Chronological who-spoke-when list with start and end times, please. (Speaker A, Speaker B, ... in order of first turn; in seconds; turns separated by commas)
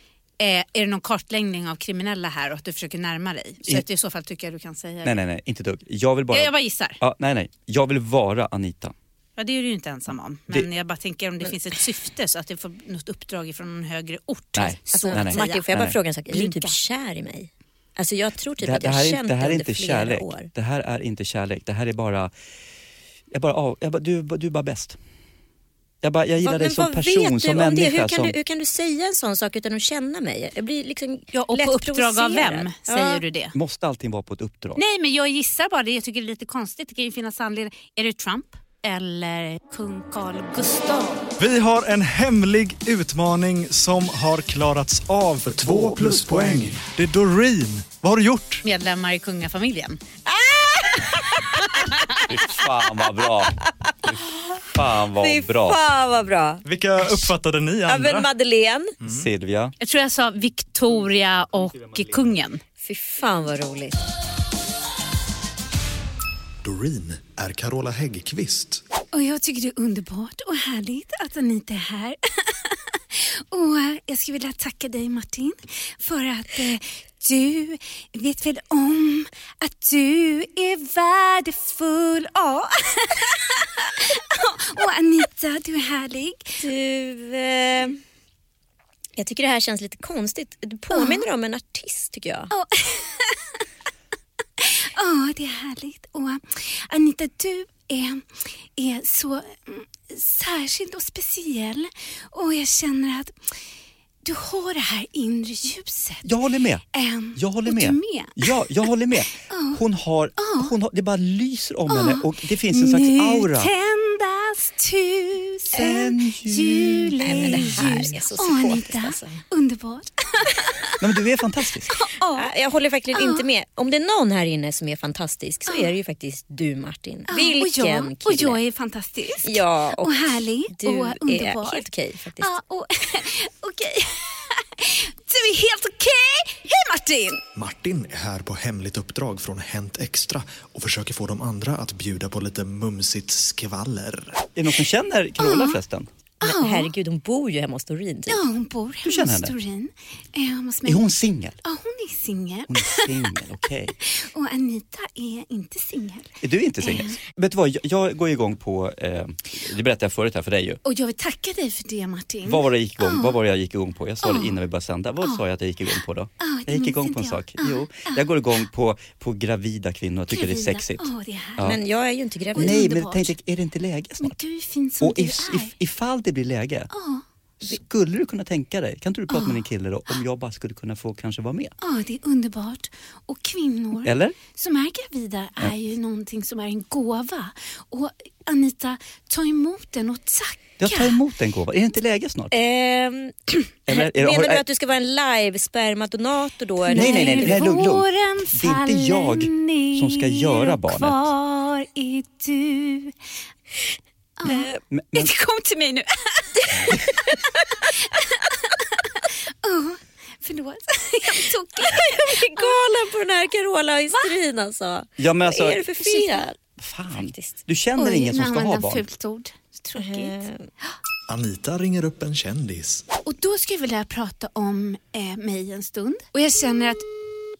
Speaker A: 0.4-5.1, Speaker B: 5.0-8.9, Speaker A: 6.3-7.0, Speaker A: 9.4-15.6, Speaker B: 14.6-16.0, Speaker C: 14.9-20.5, Speaker A: 16.3-16.8, Speaker B: 18.6-22.3, Speaker B: 23.3-25.0, Speaker B: 26.0-28.3, Speaker C: 26.4-33.2, Speaker A: 31.3-33.5, Speaker B: 33.5-34.8, Speaker A: 34.8-41.2, Speaker D: 41.4-48.6, Speaker B: 45.6-46.7, Speaker A: 48.6-50.0, Speaker C: 50.3-51.8, Speaker B: 52.2-54.2, Speaker C: 53.7-53.9, Speaker B: 54.7-55.8, Speaker C: 55.1-56.6, Speaker D: 56.6-58.3, Speaker C: 57.8-58.9, Speaker D: 59.0-59.3, Speaker B: 59.0-59.7, Speaker A: 59.8-62.6, Speaker C: 62.8-64.0, Speaker D: 66.6-68.8, Speaker A: 69.1-86.6, Speaker C: 86.6-88.0, Speaker C: 89.2-92.5, Speaker A: 90.9-91.2, Speaker A: 92.5-93.4, Speaker A: 94.6-103.3, Speaker A: 104.2-106.3, Speaker B: 106.2-113.7, Speaker A: 106.9-108.9, Speaker A: 109.4-109.8, Speaker A: 110.4-110.7, Speaker A: 111.9-121.0, Speaker B: 115.7-117.9, Speaker C: 117.2-119.4, Speaker B: 121.0-121.9, Speaker A: 121.9-122.5, Speaker C: 122.3-128.6, Speaker A: 123.1-123.4, Speaker A: 127.3-131.9, Speaker C: 129.4-132.5, Speaker A: 132.4-137.4, Speaker D: 137.5-144.4, Speaker B: 144.6-146.1, Speaker A: 145.4-145.8, Speaker A: 146.4-146.9, Speaker C: 146.4-148.4, Speaker A: 148.3-151.0, Speaker B: 149.0-149.5, Speaker B: 150.8-151.6, Speaker A: 151.6-153.1, Speaker B: 152.7-154.0, Speaker A: 154.1-157.1, Speaker B: 156.4-160.8, Speaker A: 160.8-163.3, Speaker B: 162.4-171.8, Speaker A: 164.2-164.5, Speaker A: 166.4-168.2, Speaker A: 170.3-171.7, Speaker C: 171.6-172.9, Speaker A: 172.5-173.3, Speaker B: 172.6-174.3, Speaker A: 174.2-175.7, Speaker B: 175.0-176.9, Speaker A: 176.9-177.2, Speaker B: 177.6-181.7, Speaker A: 179.3-179.6, Speaker A: 181.8-191.2, Speaker B: 184.0-184.4, Speaker B: 190.8-192.5, Speaker C: 192.5-197.6, Speaker B: 193.9-194.6, Speaker A: 196.9-203.1, Speaker B: 196.9-201.3, Speaker A: 204.4-207.0, Speaker C: 204.4-204.8, Speaker B: 204.9-205.3, Speaker A: 207.9-209.1, Speaker A: 209.6-212.8, Speaker C: 211.8-216.6, Speaker B: 215.2-215.9, Speaker A: 216.0-216.4, Speaker B: 216.8-219.0, Speaker C: 217.1-217.6, Speaker A: 218.0-220.9, Speaker C: 219.9-220.7, Speaker D: 221.3-223.0, Speaker A: 223.2-227.1